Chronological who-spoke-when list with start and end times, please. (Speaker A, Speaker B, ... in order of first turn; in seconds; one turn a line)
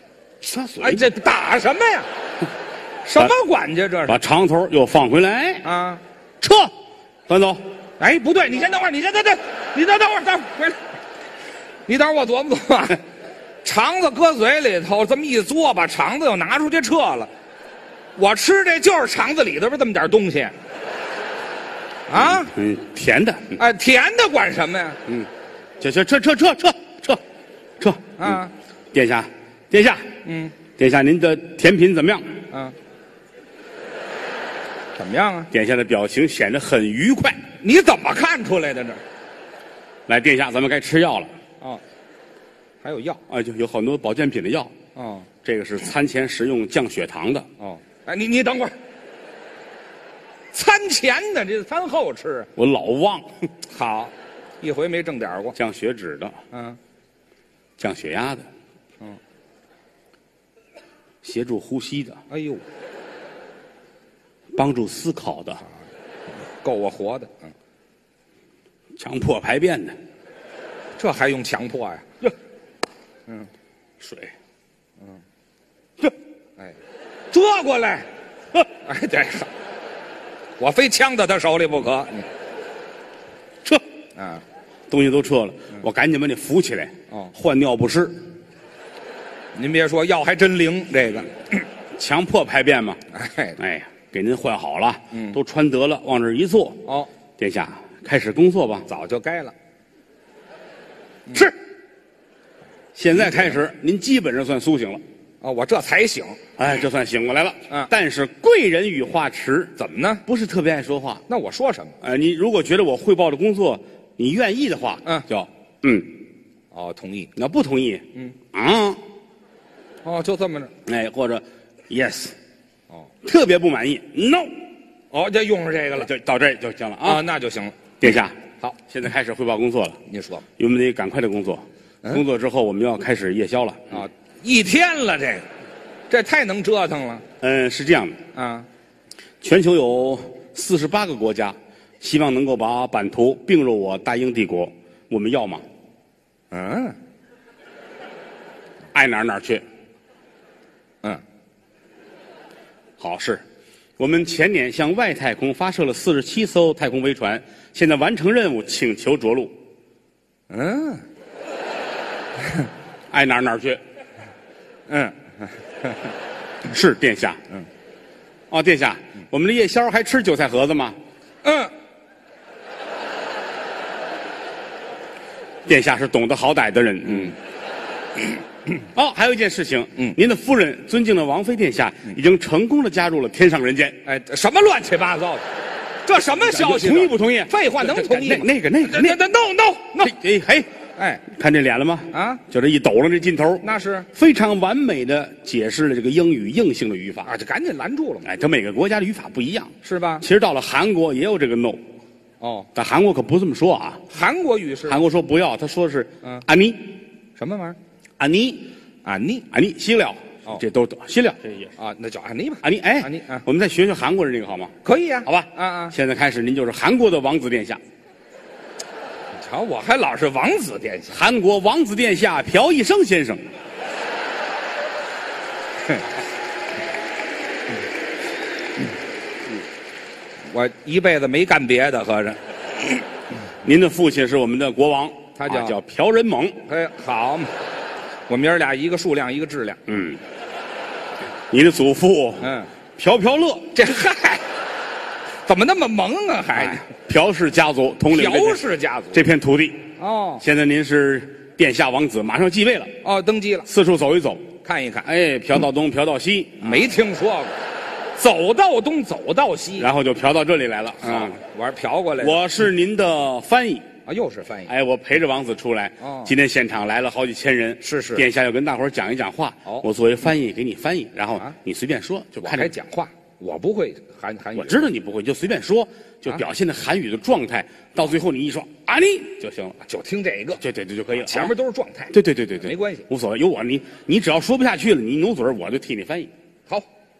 Speaker A: 0.4-1.1
Speaker B: 0.8-2.1
Speaker B: 3.0-4.2
Speaker A: 4.1-5.7
Speaker B: 5.6-6.0
Speaker A: 6.4-6.7
Speaker A: 7.3-7.6
Speaker B: 8.0-10.8
Speaker B: 11.9-13.0
Speaker B: 13.6-17.3
Speaker B: 18.2-20.5
Speaker B: 22.1-22.5
Speaker A: 22.1-23.6
Speaker B: 23.6-25.0
Speaker A: 25.1-27.2
Speaker A: 27.8-28.4
Speaker B: 28.2-28.5
Speaker A: 28.9-30.1
Speaker B: 30.2-30.6
Speaker A: 30.8-32.4
Speaker B: 32.5-32.8
Speaker B: 35.0-35.5
Speaker A: 35.5-37.4
Speaker B: 37.6-39.0
Speaker A: 40.1-41.3
Speaker B: 42.8-43.2
Speaker A: 43.3-44.8
Speaker B: 45.0-45.3
Speaker A: 45.4-47.5
Speaker B: 47.6-48.8
Speaker B: 50.5-52.5
Speaker A: 52.6-53.3
Speaker B: 53.7-55.6
Speaker A: 55.5-56.4
Speaker B: 56.5-56.8
Speaker A: 57.8-58.5
Speaker A: 61.2-62.2
Speaker B: 62.3-62.6
Speaker A: 64.5-65.6
Speaker B: 66.6-67.5
Speaker A: 69.0-70.0
Speaker B: 71.0-72.1
Speaker A: 74.0-74.3
Speaker B: 77.3-78.1
Speaker B: 78.8-79.5
Speaker B: 80.6-82.3
Speaker B: 84.2-84.4
Speaker A: 84.9-88.2
Speaker B: 89.5-91.3
Speaker A: 92.0-93.0
Speaker B: 93.1-93.6
Speaker A: 93.6-96.8
Speaker B: 95.1-95.4
Speaker B: 96.8-97.1
Speaker A: 97.4-98.9
Speaker B: 98.9-99.5
Speaker A: 103.0-105.0
Speaker B: 105.4-106.4
Speaker A: 106.6-109.8
Speaker B: 109.8-110.2
Speaker A: 110.3-111.2
Speaker B: 111.3-112.0
Speaker A: 112.0-116.2
Speaker B: 116.7-117.3
Speaker A: 117.4-119.0
Speaker B: 120.0-120.7
Speaker A: 120.8-122.4
Speaker A: 123.2-124.5
Speaker B: 125.1-126.1
Speaker A: 126.0-127.2
Speaker B: 127.0-127.8
Speaker A: 128.0-130.0
Speaker B: 130.1-130.4
Speaker A: 130.6-134.1
Speaker B: 133.9-135.5
Speaker B: 136.1-137.2
Speaker A: 137.4-138.2
Speaker B: 138.3-138.7
Speaker A: 139.4-145.7
Speaker B: 146.5-147.0
Speaker A: 148.9-149.6
Speaker A: 153.0-153.4
Speaker A: 154.0-159.6
Speaker B: 160.5-161.0
Speaker A: 163.1-163.8
Speaker B: 164.9-166.0
Speaker A: 166.7-167.4
Speaker A: 168.5-171.0
Speaker B: 171.4-171.7
Speaker A: 175.7-177.4
Speaker A: 178.8-184.0
Speaker B: 184.1-185.4
Speaker B: 186.1-190.1
Speaker A: 186.4-189.2
Speaker A: 190.0-190.7
Speaker B: 191.0-191.2
Speaker A: 191.3-197.3
Speaker B: 192.1-192.4
Speaker B: 193.6-194.1
Speaker B: 197.2-198.3
Speaker A: 198.2-201.9
Speaker B: 199.8-200.3
Speaker B: 202.4-202.7
Speaker A: 202.7-204.0
Speaker B: 204.1-205.0
Speaker A: 204.9-207.0
Speaker B: 207.4-207.8
Speaker A: 208.2-208.7
Speaker B: 209.1-209.4
Speaker A: 209.5-211.7
Speaker B: 211.8-213.4
Speaker A: 212.6-214.7
Speaker B: 214.8-215.9
Speaker A: 215.2-217.8
Speaker B: 219.4-221.2
Speaker A: 221.1-223.5
Speaker B: 230.5-232.4
Speaker A: 233.6-236.6
Speaker B: 235.4-235.8
Speaker B: 236.7-237.5
Speaker B: 238.3-239.8
Speaker A: 239.9-240.2
Speaker A: 241.5-243.8
Speaker B: 242.4-242.7
Speaker B: 243.7-244.4
Speaker B: 245.5-246.8
Speaker A: 246.6-253.0
Speaker B: 248.1-249.2
Speaker B: 250.0-250.4
Speaker B: 253.0-253.7
Speaker A: 253.7-254.5
Speaker B: 254.6-255.1
Speaker A: 255.0-256.9
Speaker B: 256.6-257.6
Speaker B: 258.2-259.9
Speaker A: 259.8-261.4
Speaker B: 261.0-262.4
Speaker A: 262.2-263.9
Speaker B: 264.1-264.7
Speaker A: 264.7-272.8
Speaker B: 266.0-266.3
Speaker B: 267.8-268.2
Speaker B: 272.4-274.9
Speaker A: 274.6-279.8
Speaker B: 279.8-280.6
Speaker A: 280.6-281.5
Speaker B: 281.2-283.1
Speaker A: 282.1-286.3